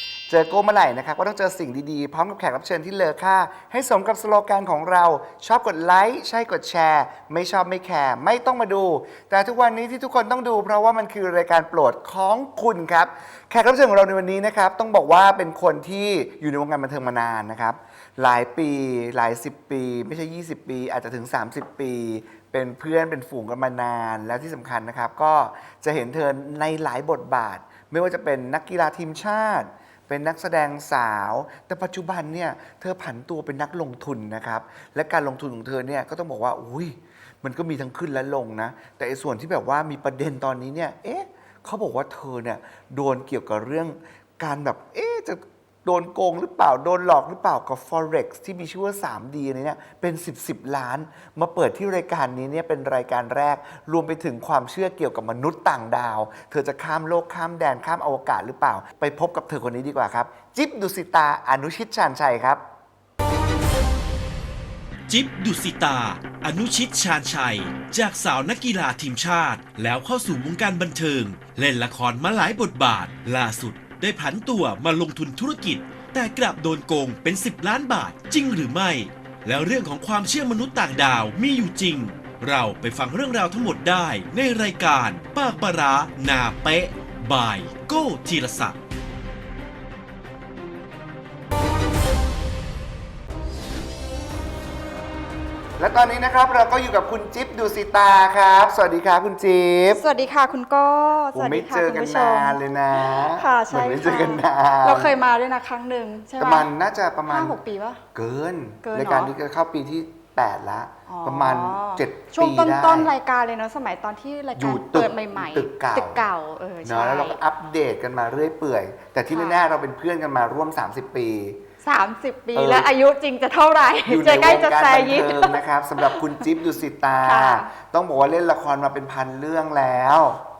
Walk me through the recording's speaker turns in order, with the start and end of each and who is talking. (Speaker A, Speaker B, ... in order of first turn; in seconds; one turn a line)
Speaker A: 0.3-62.6
Speaker B: 65.1-88.8
Speaker A: 95.8-100.0
Speaker C: 99.9-106.7
Speaker A: 101.3-105.1
Speaker A: 106.4-107.5
Speaker C: 107.3-108.0
Speaker A: 108.1-113.1
Speaker C: 108.8-109.3
Speaker C: 111.1-117.4
Speaker A: 114.5-116.2
Speaker A: 116.8-121.6
Speaker C: 119.3-119.6
Speaker C: 121.8-126.2
Speaker A: 122.5-122.9
Speaker A: 124.1-130.4
Speaker C: 127.2-127.7